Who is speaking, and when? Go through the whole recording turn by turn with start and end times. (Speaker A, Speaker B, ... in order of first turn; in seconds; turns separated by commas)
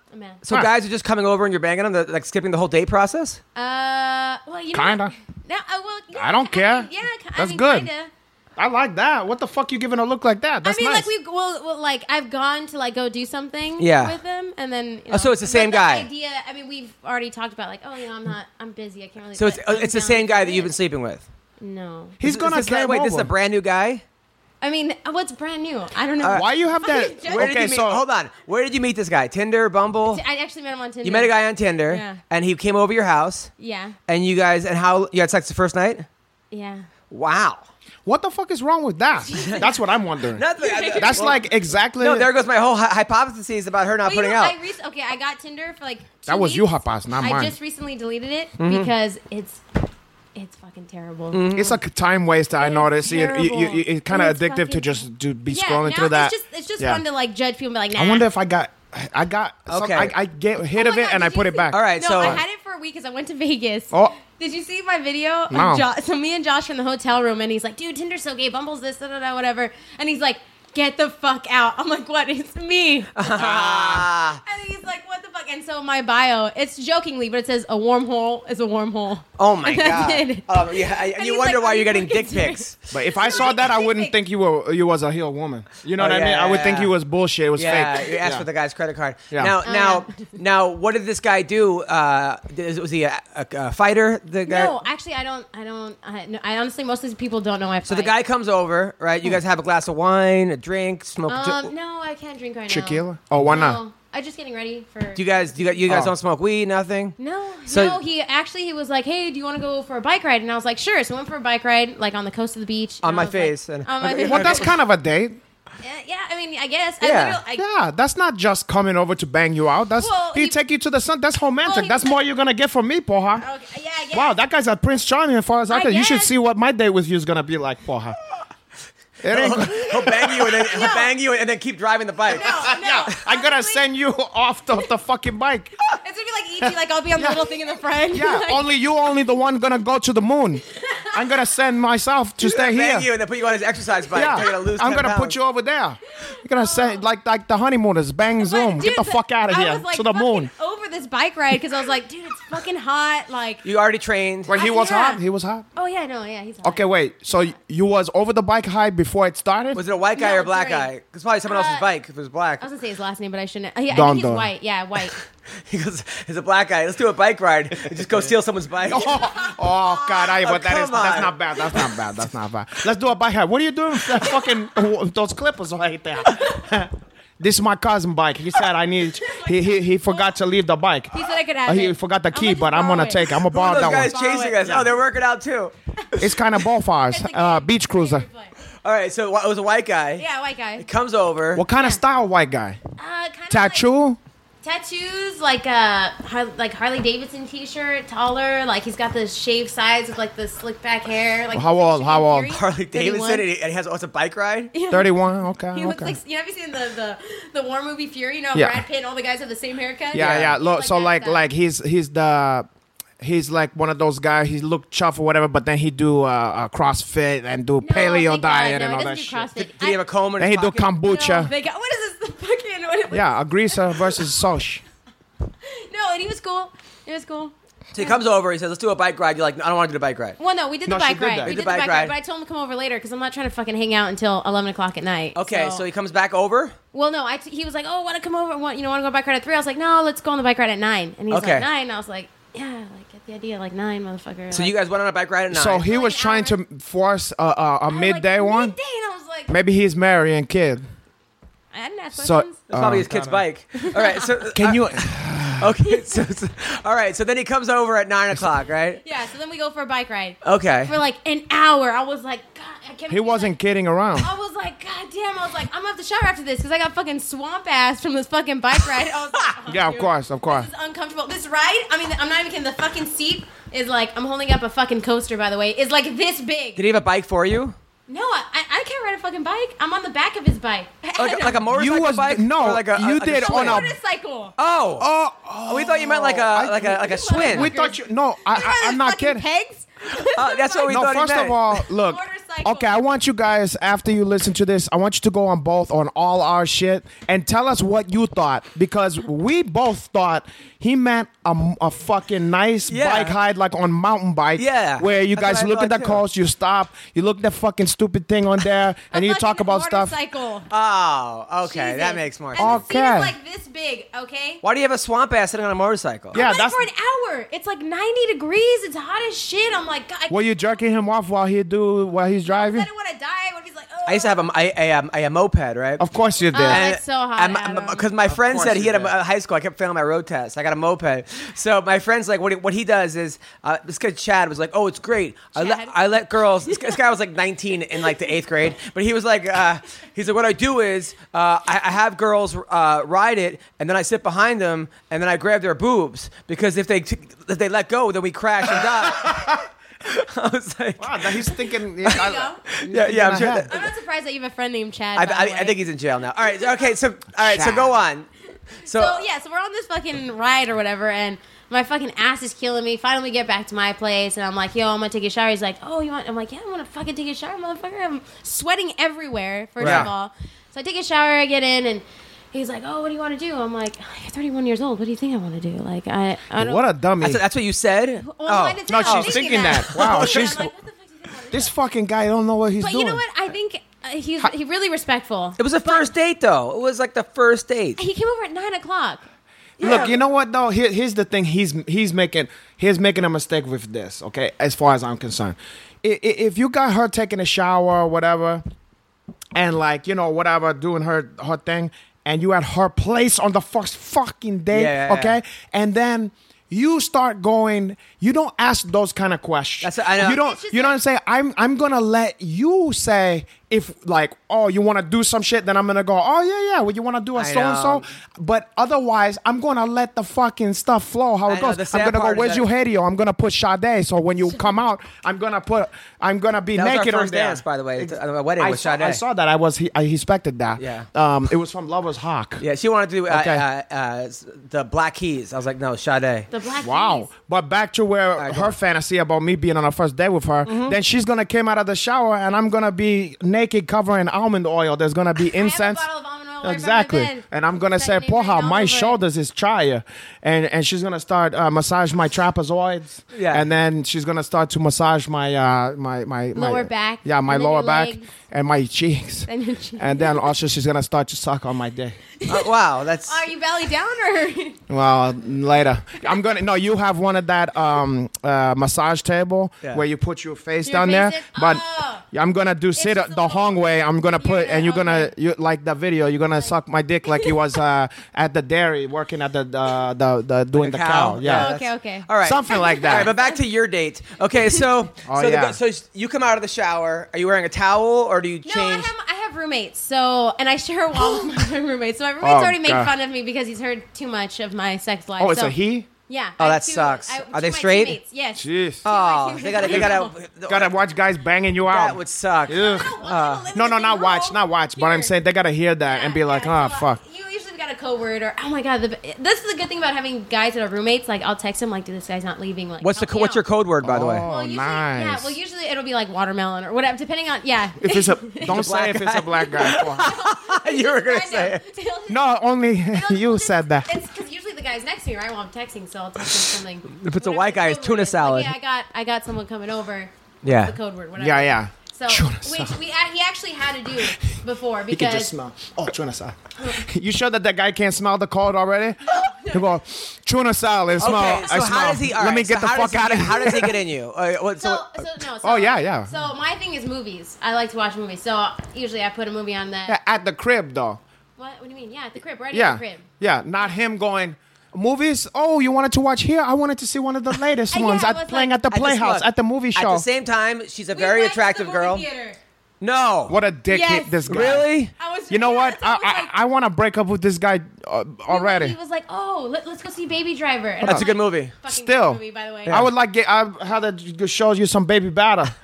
Speaker A: 0.1-0.4, Speaker B: 0.4-3.4, Speaker A: 3.5-8.1, Speaker C: 4.7-5.1, Speaker C: 6.1-7.9, Speaker C: 8.6-11.1, Speaker A: 10.6-20.7, Speaker B: 13.8-14.2, Speaker B: 15.1-16.1, Speaker B: 19.4-21.3, Speaker A: 21.6-22.2, Speaker C: 22.2-23.3, Speaker B: 22.2-24.0, Speaker A: 24.6-27.6, Speaker B: 26.2-26.4, Speaker C: 26.3-28.0, Speaker B: 27.3-30.2, Speaker A: 30.1-31.3, Speaker B: 31.0-33.5, Speaker A: 31.9-32.2, Speaker A: 33.6-34.0, Speaker B: 34.1-36.1, Speaker A: 36.5-36.9, Speaker B: 37.1-37.7, Speaker C: 38.1-42.3, Speaker A: 39.3-39.8, Speaker B: 40.3-41.5, Speaker A: 40.6-41.4, Speaker B: 42.0-44.5, Speaker A: 44.0-49.6, Speaker C: 46.3-47.5, Speaker B: 48.6-48.9, Speaker A: 50.4-51.5, Speaker B: 51.3-51.8, Speaker C: 51.5-57.0, Speaker A: 52.6-58.3, Speaker C: 58.0-62.4, Speaker B: 59.7-60.1, Speaker A: 60.8-84.2, Speaker B: 61.7-62.4, Speaker C: 65.5-65.8, Speaker B: 73.2-74.4, Speaker C: 73.3-73.9, Speaker B: 79.4-82.8, Speaker C: 82.9-88.5, Speaker B: 86.0-87.0, Speaker B: 87.6-94.8, Speaker A: 89.6-90.2, Speaker A: 94.5-98.2, Speaker B: 97.9-101.7, Speaker A: 101.3-105.9, Speaker C: 102.7-103.8, Speaker B: 105.2-107.2, Speaker C: 105.9-106.1, Speaker A: 107.2-114.8, Speaker B: 107.7-108.0, Speaker B: 113.0-114.7, Speaker C: 114.0-115.4, Speaker A: 115.8-117.6, Speaker B: 117.0-117.4, Speaker C: 117.6-123.5, Speaker A: 120.0-120.6, Speaker A: 121.6-122.2, Speaker A: 123.4-124.4, Speaker C: 124.1-128.2, Speaker A: 125.7-126.3, Speaker C: 129.2-130.5, Speaker B: 129.3-132.7, Speaker A: 130.5-131.1, Speaker A: 132.3-133.8, Speaker C: 132.4-135.8, Speaker A: 136.0-138.7, Speaker C: 137.2-137.5, Speaker C: 138.1-143.1, Speaker A: 140.9-141.2, Speaker B: 142.4-145.4, Speaker C: 144.1-150.5, Speaker A: 146.2-147.0, Speaker A: 148.4-153.7, Speaker B: 153.6-154.5, Speaker C: 154.5-155.7, Speaker A: 154.5-155.2, Speaker A: 155.8-156.9, Speaker C: 156.6-159.8, Speaker B: 159.8-162.6, Speaker A: 160.2-160.9, Speaker A: 161.5-161.9, Speaker A: 162.6-165.2, Speaker C: 163.9-164.5, Speaker B: 165.7-169.4, Speaker C: 168.9-184.9, Speaker A: 169.1-169.6, Speaker B: 170.2-171.7, Speaker A: 179.3-180.3, Speaker A: 181.1-184.8, Speaker B: 183.5-185.7, Speaker C: 186.2-188.3, Speaker A: 187.1-188.5, Speaker B: 188.8-190.2, Speaker A: 190.2-190.9, Speaker B: 190.8-191.6, Speaker C: 191.6-192.8, Speaker A: 191.7-192.0, Speaker A: 193.0-193.9, Speaker C: 193.5-194.2, Speaker A: 194.6-203.5, Speaker C: 201.5-202.5, Speaker B: 202.5-204.7, Speaker A: 204.7-205.2, Speaker C: 204.9-206.2, Speaker A: 205.7-211.4, Speaker C: 208.6-208.8, Speaker B: 210.1-210.6, Speaker C: 210.1-212.7, Speaker C: 213.2-219.5, Speaker A: 217.8-220.0, Speaker B: 219.6-220.9, Speaker C: 220.4-221.5, Speaker A: 221.0-224.3, Speaker C: 223.1-224.8, Speaker A: 225.6-228.2, Speaker B: 227.9-230.4, Speaker A: 230.4-235.8, Speaker C: 230.9-231.6, Speaker B: 231.4-232.1, Speaker B: 235.3-236.8, Speaker A: 236.9-244.8, Speaker B: 241.3-241.7, Speaker B: 244.5-245.8, Speaker C: 245.5-248.8, Speaker A: 245.8-246.6, Speaker A: 247.9-249.5, Speaker C: 249.5-250.8, Speaker A: 251.7-252.6, Speaker C: 252.2-253.4, Speaker B: 252.7-259.0, Speaker A: 253.8-254.3, Speaker C: 254.6-255.8, Speaker A: 259.0-263.5, Speaker B: 260.4-260.9, Speaker C: 263.1-264.3, Speaker A: 264.2-276.8, Speaker C: 269.7-270.7, Speaker B: 276.8-277.8, Speaker A: 278.1-281.7, Speaker B: 281.2-283.9, Speaker C: 281.7-283.9, Speaker A: 283.3-284.5, Speaker B: 284.6-285.1, Speaker C: 285.0-289.4, Speaker B: 285.7-287.7, Speaker A: 286.9-291.0, Speaker B: 290.1-291.6, Speaker C: 290.9-310.1, Speaker A: 291.8-292.9, Speaker B: 302.9-303.4, Speaker B: 304.6-306.2, Speaker A: 309.1-310.7, Speaker B: 310.7-312.8, Speaker A: 311.6-314.6, Speaker C: 312.6-313.4, Speaker B: 314.6-316.4, Speaker C: 316.3-316.9, Speaker A: 316.4-320.6, Speaker C: 320.3-322.9, Speaker A: 322.4-324.4, Speaker B: 324.1-326.0, Speaker C: 326.0-326.8, Speaker A: 326.5-328.1, Speaker B: 326.6-353.9, Speaker C: 328.3-329.1, Speaker A: 335.6-336.0, Speaker A: 336.7-336.9, Speaker C: 349.0-349.6, Speaker C: 351.0-353.9, Speaker A: 352.1-352.6, Speaker A: 353.7-355.8, Speaker B: 355.1-358.3, Speaker A: 356.5-356.9, Speaker C: 357.4-358.0, Speaker B: 358.8-359.2, Speaker A: 358.9-376.8, Speaker B: 369.8-370.1, Speaker C: 369.8-370.1, Speaker C: 376.6-377.4, Speaker B: 377.2-380.6, Speaker A: 378.2-381.7, Speaker C: 378.9-380.7, Speaker C: 381.5-383.2, Speaker A: 382.8-386.1, Speaker B: 385.6-388.0, Speaker A: 388.0-389.2, Speaker A: 389.8-390.1, Speaker C: 389.8-398.6, Speaker B: 389.8-390.1, Speaker C: 399.6-432.6, Speaker B: 404.7-405.4, Speaker B: 409.8-410.4, Speaker A: 410.2-411.0, Speaker B: 417.4-418.1, Speaker B: 421.5-422.6, Speaker B: 426.8-429.2, Speaker B: 430.8-431.1, Speaker B: 432.6-436.5, Speaker C: 433.3-433.6, Speaker A: 436.5-437.3, Speaker C: 436.8-446.0, Speaker B: 438.4-438.8, Speaker B: 440.7-441.0, Speaker A: 445.5-449.2, Speaker C: 446.6-462.2, Speaker B: 453.3-453.7, Speaker A: 456.6-458.3, Speaker A: 459.5-460.4, Speaker A: 462.4-462.7, Speaker B: 462.5-463.4, Speaker A: 463.3-464.8, Speaker C: 464.9-481.7, Speaker A: 470.9-472.2, Speaker A: 473.0-475.3, Speaker A: 477.3-477.6, Speaker B: 480.8-489.1, Speaker A: 481.4-483.6, Speaker C: 482.4-483.3, Speaker C: 485.3-485.8, Speaker A: 488.7-495.8, Speaker C: 492.4-493.1, Speaker C: 495.4-496.1, Speaker A: 496.3-500.3, Speaker B: 496.6-498.2, Speaker C: 498.6-499.0, Speaker B: 499.1-500.9, Speaker C: 499.8-503.1, Speaker B: 501.9-503.6, Speaker A: 502.7-505.3, Speaker C: 503.7-507.2, Speaker A: 506.1-513.6, Speaker B: 513.0-514.5, Speaker C: 514.0-515.6, Speaker A: 514.5-518.9, Speaker C: 518.0-520.3, Speaker B: 518.7-521.8, Speaker A: 519.8-522.5, Speaker C: 522.3-524.1, Speaker A: 523.1-535.5, Speaker B: 527.1-528.7, Speaker B: 530.6-530.9, Speaker C: 531.4-532.9, Speaker C: 535.1-543.9, Speaker A: 536.8-537.0, Speaker A: 539.2-539.9, Speaker B: 541.2-545.0, Speaker A: 544.8-550.2, Speaker C: 545.6-546.3, Speaker C: 550.1-551.2, Speaker A: 551.6-553.3, Speaker C: 552.7-560.3, Speaker A: 557.9-558.8, Speaker B: 558.9-562.3, Speaker A: 561.1-562.6, Speaker B: 563.0-563.6, Speaker C: 563.5-564.9, Speaker A: 563.9-566.5, Speaker B: 564.5-565.1, Speaker C: 565.5-569.0, Speaker A: 568.5-573.0, Speaker C: 571.0-571.3, Speaker B: 571.0-571.7, Speaker C: 571.9-575.7